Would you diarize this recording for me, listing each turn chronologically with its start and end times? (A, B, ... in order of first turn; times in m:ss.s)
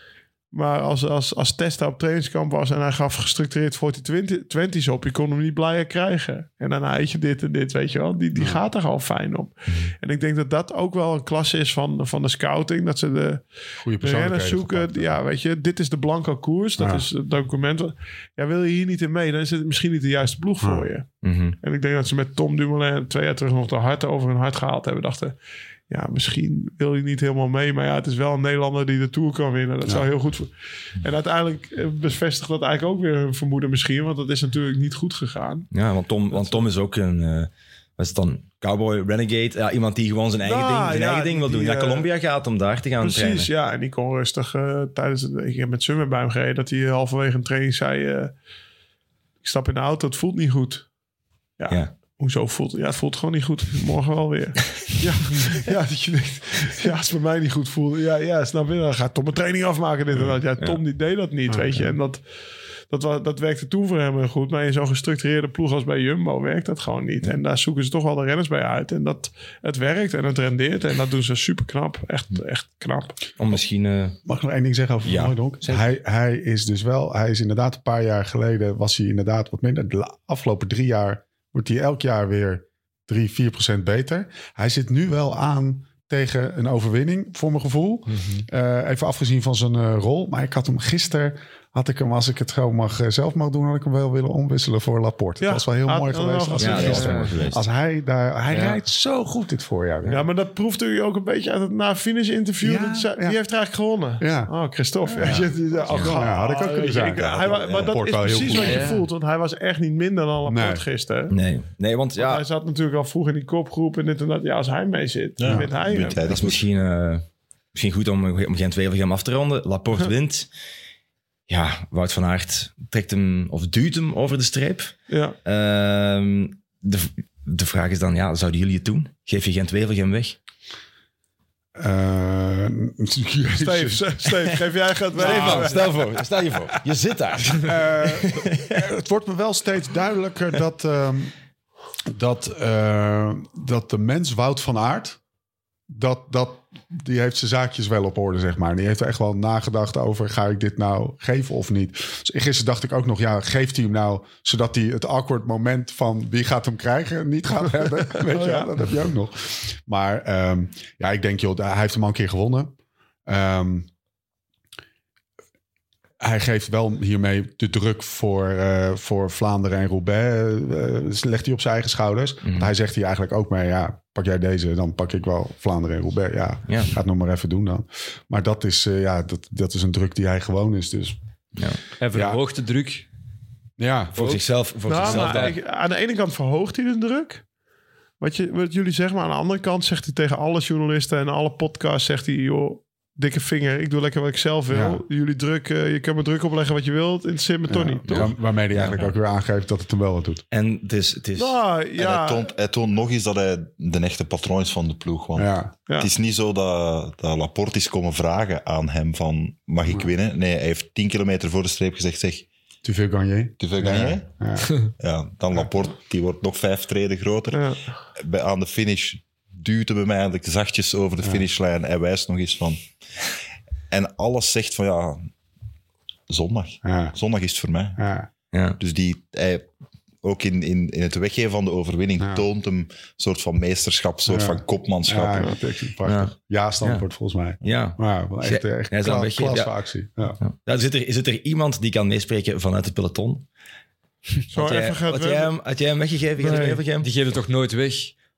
0:00.5-0:25.4 A
0:08.3-0:08.6 B
0:13.8-0:15.2 B
0:16.8-0:17.1 B
0:20.6-0:20.9 B
0:21.2-0:21.6 C
0:25.9-0:35.7 A
0:35.7-0:43.5 C
0:36.3-0:36.6 A
0:40.4-0:42.1 A
0:43.0-0:48.3 A
0:49.4-0:50.9 A
0:51.6-1:02.3 A
0:51.7-0:51.9 C
1:01.5-1:01.9 B
1:02.9-1:13.2 A
1:13.4-1:14.2 C
1:14.2-1:40.3 B
1:15.0-1:15.8 C
1:28.1-1:28.4 D
1:35.4-1:37.1 A
1:36.6-1:37.6 C
1:36.8-1:37.3 D
1:38.5-1:38.8 D
1:40.0-1:51.4 A
1:42.6-1:43.4 B
1:44.2-1:44.5 B
1:45.0-1:48.9 B
1:47.1-1:48.7 E
1:48.6-1:49.0 D
1:50.4-1:50.8 B
1:51.3-1:52.4 C
1:52.2-1:56.2 A
1:55.4-1:56.6 E
1:56.2-2:00.5 C
2:01.5-2:10.4 C
2:05.1-2:05.4 A
2:11.7-2:14.2 B
2:13.6-2:16.0 A
2:15.1-2:15.8 B
2:15.1-2:18.7 C
2:17.6-2:21.3 B
2:22.1-2:25.2 B
2:25.9-2:42.7 B
2:38.3-2:38.7 A
2:43.2-2:43.9 B
2:46.2-3:01.2 B
2:52.4-2:52.7 C
2:56.7-2:56.9 C
3:02.0-3:03.0 D
3:02.1-3:02.4 B
3:03.8-3:04.1 B
3:04.1-3:05.6 C
3:04.8-3:07.4 A
3:05.0-3:05.5 D
3:08.2-3:18.0 A
3:14.7-3:15.0 B
3:17.7-3:20.4 B
3:18.1-3:19.1 C
3:20.5-3:21.6 C
3:21.4-3:22.5 A
3:22.0-3:32.5 E
3:25.4-3:25.7 B
3:32.8-3:34.7 B
3:33.6-3:42.9 E
3:37.5-3:37.8 A
3:43.9-3:45.3 E
3:46.3-3:48.1 E
3:46.8-3:47.1 B
3:48.0-3:48.3 B
3:48.5-3:48.8 C
3:48.8-3:55.5 E
3:52.2-3:52.4 B
3:54.3-4:00.4 B
3:56.0-3:57.0 C
3:57.6-3:59.7 C
4:00.4-4:03.4 C
4:04.5-4:05.5 A
4:04.5-4:07.1 C
4:06.5-4:06.8 A
4:06.5-4:08.1 D